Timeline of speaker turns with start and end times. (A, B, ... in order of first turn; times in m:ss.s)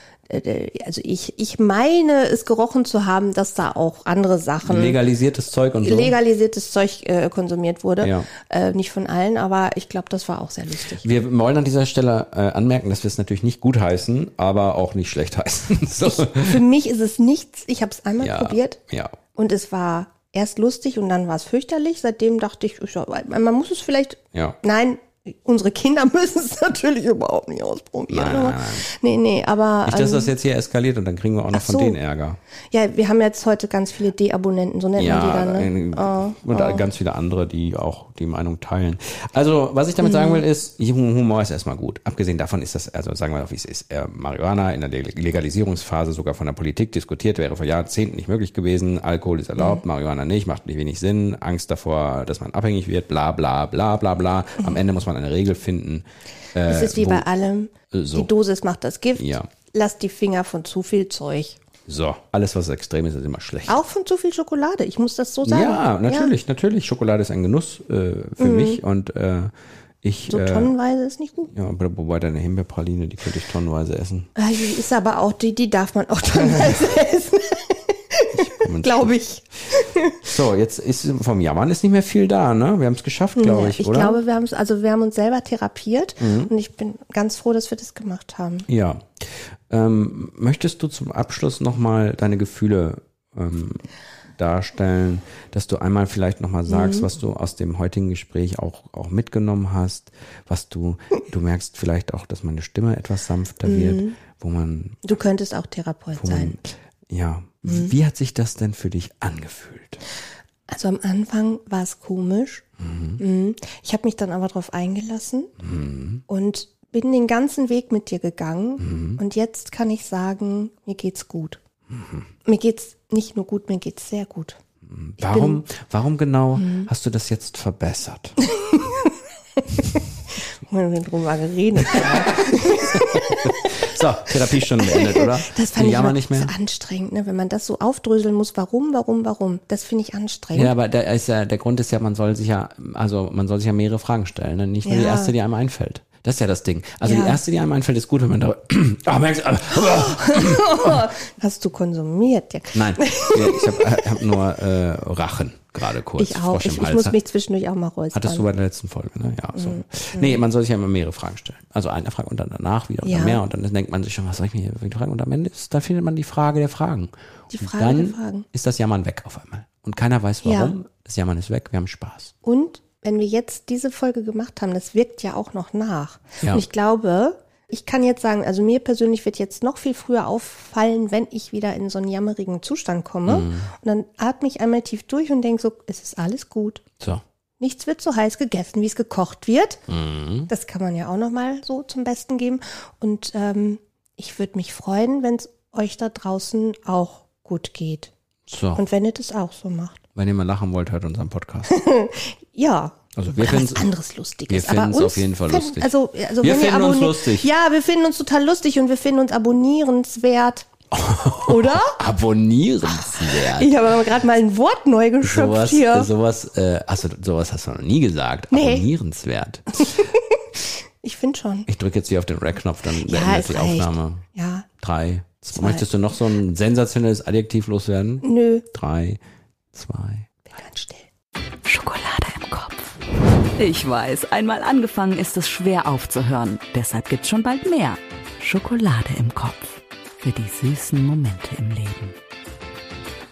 0:00.3-0:05.0 A
0:04.6-0:06.2 B
0:05.8-0:11.0 A
0:08.0-0:08.3 B
0:11.0-0:16.6 B
0:16.0-0:18.8 A
0:18.2-0:19.2 B
0:19.4-0:30.3 A
0:28.1-0:28.9 B
0:29.9-0:32.4 B
0:31.5-0:32.0 A
0:32.7-0:36.9 A
0:35.0-0:57.3 B
0:40.0-0:40.4 A
0:56.6-1:01.6 A
0:57.9-0:58.3 B
0:59.2-0:59.5 B
1:01.9-1:03.8 B
1:03.7-1:06.3 A
1:05.4-1:09.5 B
1:08.4-1:08.8 A
1:10.0-1:10.7 B
1:10.3-1:11.5 A
1:11.5-1:14.3 B
1:14.4-1:20.3 A
1:16.3-1:17.0 B
1:18.3-1:19.1 B
1:20.2-1:24.2 B
1:23.4-1:28.7 A
1:26.2-1:26.5 B
1:28.7-1:29.1 B
1:29.7-1:33.9 B
1:34.4-1:45.1 B
1:36.7-1:37.1 A
1:43.6-1:44.2 A
1:45.0-1:46.6 A
1:46.2-1:50.0 B
1:50.7-1:52.6 A
1:52.8-1:53.2 B
1:53.2-1:55.5 A
1:55.6-1:56.2 B
1:56.3-2:01.6 A
1:58.8-1:59.2 B
2:01.9-2:02.2 B
2:02.4-2:04.6 A
2:04.9-2:08.4 B
2:05.2-2:05.6 A
2:06.6-2:06.9 A
2:08.4-2:09.1 A
2:10.6-2:13.7 A
2:11.8-2:16.5 B
2:14.6-2:20.7 A
2:20.5-2:31.0 B
2:24.8-2:25.3 A
2:27.0-2:27.4 A
2:29.8-2:34.2 A
2:32.7-2:37.2 B
2:36.2-2:38.5 A
2:38.1-2:52.3 B
2:39.6-2:40.4 A
2:43.0-2:43.4 A
2:47.5-2:48.5 A
2:50.4-2:50.7 A
2:52.4-3:06.8 A
3:03.3-3:03.7 B
3:07.6-3:09.8 A
3:09.9-3:10.5 B
3:10.5-3:18.1 A
3:18.5-3:18.8 B
3:18.8-3:20.0 A
3:20.2-3:21.7 B
3:21.7-3:30.7 A
3:23.2-3:23.9 B
3:24.5-3:27.5 B
3:30.9-3:34.0 B
3:31.4-3:32.0 A
3:33.1-3:36.1 A
3:35.2-3:40.0 B
3:38.5-3:38.9 A
3:39.9-3:41.7 A
3:41.7-3:44.2 B
3:42.9-3:44.7 A
3:44.8-3:49.2 B
3:45.5-3:45.9 A
3:48.2-3:48.7 A
3:49.7-3:50.3 B
3:50.5-3:51.1 A
3:51.6-3:52.9 C
3:53.6-4:02.2 C